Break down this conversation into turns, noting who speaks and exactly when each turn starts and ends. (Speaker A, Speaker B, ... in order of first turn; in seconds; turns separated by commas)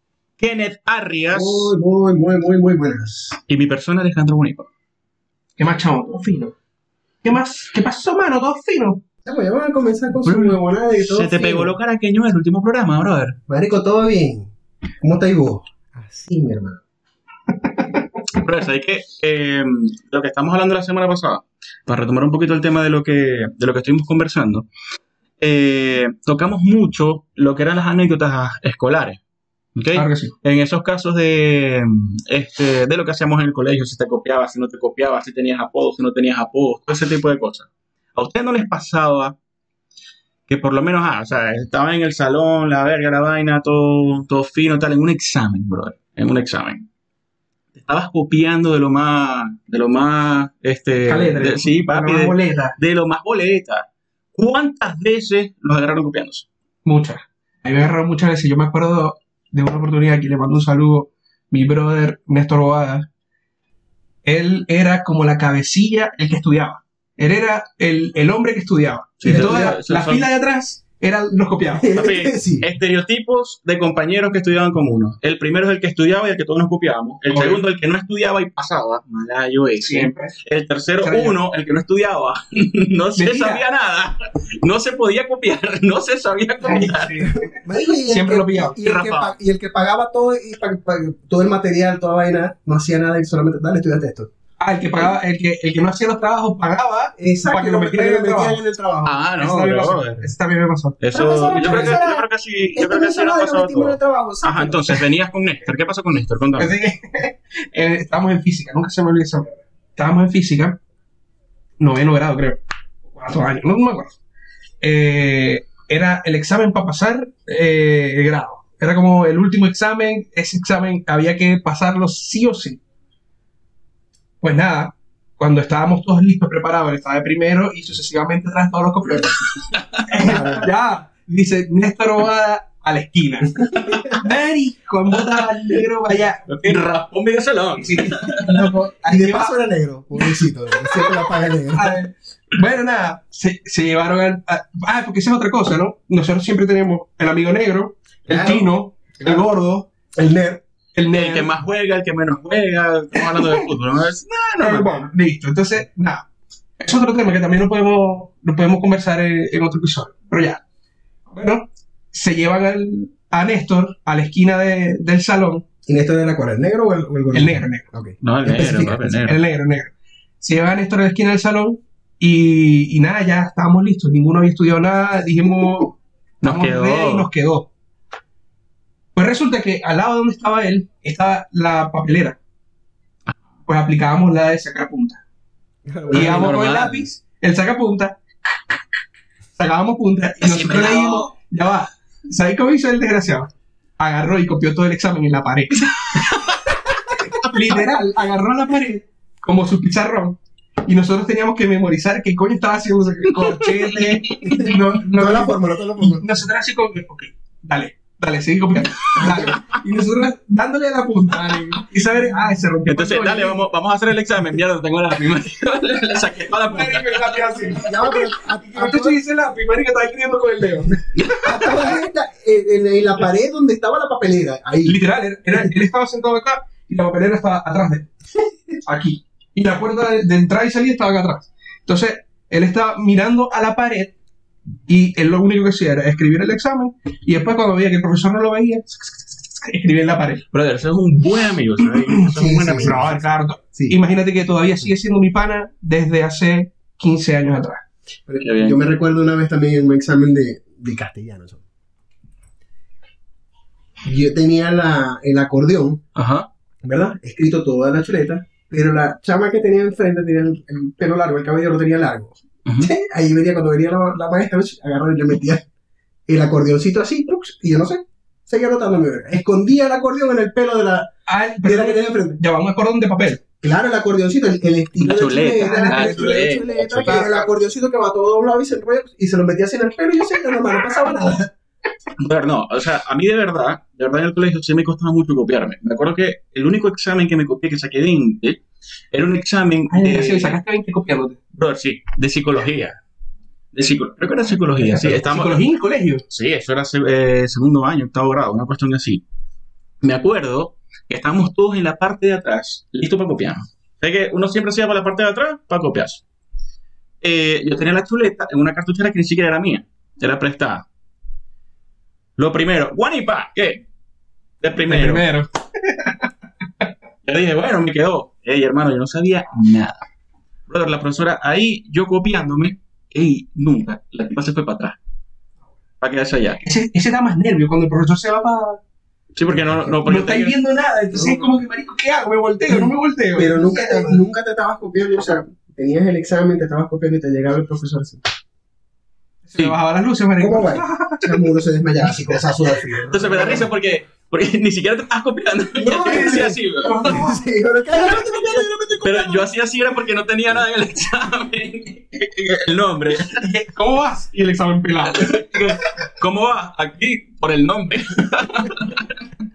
Speaker A: 0.4-1.7, Speaker B: 1.3-3.4, Speaker A: 3.5-4.7, Speaker C: 5.6-6.5, Speaker C: 7.2-9.0, Speaker B: 9.2-11.7, Speaker A: 10.2-13.4, Speaker B: 13.5-14.5, Speaker B: 15.0-16.8, Speaker A: 18.3-24.7, Speaker A: 25.4-29.2, Speaker A: 29.8-39.4, Speaker C: 29.9-30.4, Speaker A: 40.5-46.9, Speaker A: 47.8-56.5, Speaker C: 51.0-52.8, Speaker C: 56.9-63.1, Speaker C: 64.2-71.9, Speaker A: 69.2-70.3, Speaker B: 69.2-69.8, Speaker B: 71.7-72.7, Speaker A: 71.9-87.2, Speaker C: 77.3-77.6, Speaker C: 79.8-80.3, Speaker C: 81.0-81.4, Speaker C: 83.2-83.6, Speaker C: 86.6-87.5, Speaker B: 87.2-94.3, Speaker C: 88.1-88.8, Speaker A: 88.8-89.3, Speaker C: 94.6-98.6, Speaker B: 97.2-99.2, Speaker A: 99.0-100.3, Speaker C: 99.4-102.1, Speaker A: 101.0-106.7, Speaker B: 101.1-102.2, Speaker B: 102.8-105.0, Speaker C: 106.6-110.8, Speaker C: 111.8-114.2, Speaker C: 114.8-122.8, Speaker C: 124.4-136.9, Speaker A: 130.0-130.4, Speaker B: 130.2-130.7, Speaker B: 133.6-134.2, Speaker A: 135.1-135.4, Speaker A: 136.5-138.7, Speaker C: 137.8-139.5, Speaker B: 139.1-142.0, Speaker C: 141.7-149.9, Speaker B: 148.3-148.7, Speaker B: 150.1-150.6, Speaker C: 150.9-151.5, Speaker A: 151.1-154.9, Speaker C: 153.2-153.7, Speaker C: 154.6-156.2, Speaker C: 156.8-160.6, Speaker C: 161.3-165.7, Speaker B: 165.9-169.1, Speaker C: 167.3-167.9, Speaker A: 168.2-169.4, Speaker C: 169.1-177.7, Speaker A: 176.4-177.3, Speaker C: 179.2-182.4, Speaker C: 183.7-185.2, Speaker B: 185.9-186.6, Speaker A: 186.1-187.1, Speaker C: 186.1-188.7, Speaker C: 189.6-196.2, Speaker A: 190.4-191.3, Speaker A: 196.1-197.2, Speaker C: 197.2-213.6, Speaker A: 203.5-204.7, Speaker B: 204.4-206.2, Speaker B: 209.2-209.7, Speaker A: 212.9-218.1, Speaker C: 216.7-217.9, Speaker B: 217.8-219.2, Speaker C: 218.7-221.0, Speaker A: 221.2-222.0, Speaker B: 221.4-225.0, Speaker C: 224.8-228.1, Speaker C: 228.8-234.1, Speaker C: 234.9-240.4, Speaker A: 240.5-243.2, Speaker B: 242.3-243.2, Speaker C: 242.8-247.8, Speaker B: 248.3-251.6, Speaker A: 248.4-248.8, Speaker B: 254.1-256.0, Speaker A: 256.1-256.5, Speaker B: 256.8-265.6, Speaker A: 262.7-262.9, Speaker B: 266.3-271.1, Speaker C: 271.3-273.4, Speaker B: 271.6-272.4, Speaker B: 273.6-281.5, Speaker A: 275.0-277.3, Speaker C: 275.6-276.5, Speaker C: 277.1-277.4, Speaker A: 282.2-288.6, Speaker A: 289.1-290.6, Speaker C: 289.9-291.4, Speaker A: 291.5-293.0, Speaker A: 293.7-295.6, Speaker C: 294.8-296.2, Speaker A: 296.3-299.2, Speaker A: 300.0-306.2, Speaker A: 307.2-310.9, Speaker A: 312.4-313.8, Speaker A: 314.6-315.3, Speaker C: 314.9-316.2, Speaker A: 317.2-320.0, Speaker A: 320.7-325.0, Speaker A: 326.0-326.6, Speaker C: 326.6-328.8, Speaker A: 329.4-330.6, Speaker C: 329.9-334.2, Speaker B: 331.1-331.5, Speaker B: 332.7-338.2, Speaker C: 339.5-341.5, Speaker B: 340.4-343.7, Speaker A: 343.1-347.0, Speaker B: 345.8-349.4, Speaker C: 346.1-347.4, Speaker A: 349.0-353.4, Speaker C: 353.3-355.4, Speaker A: 355.1-359.3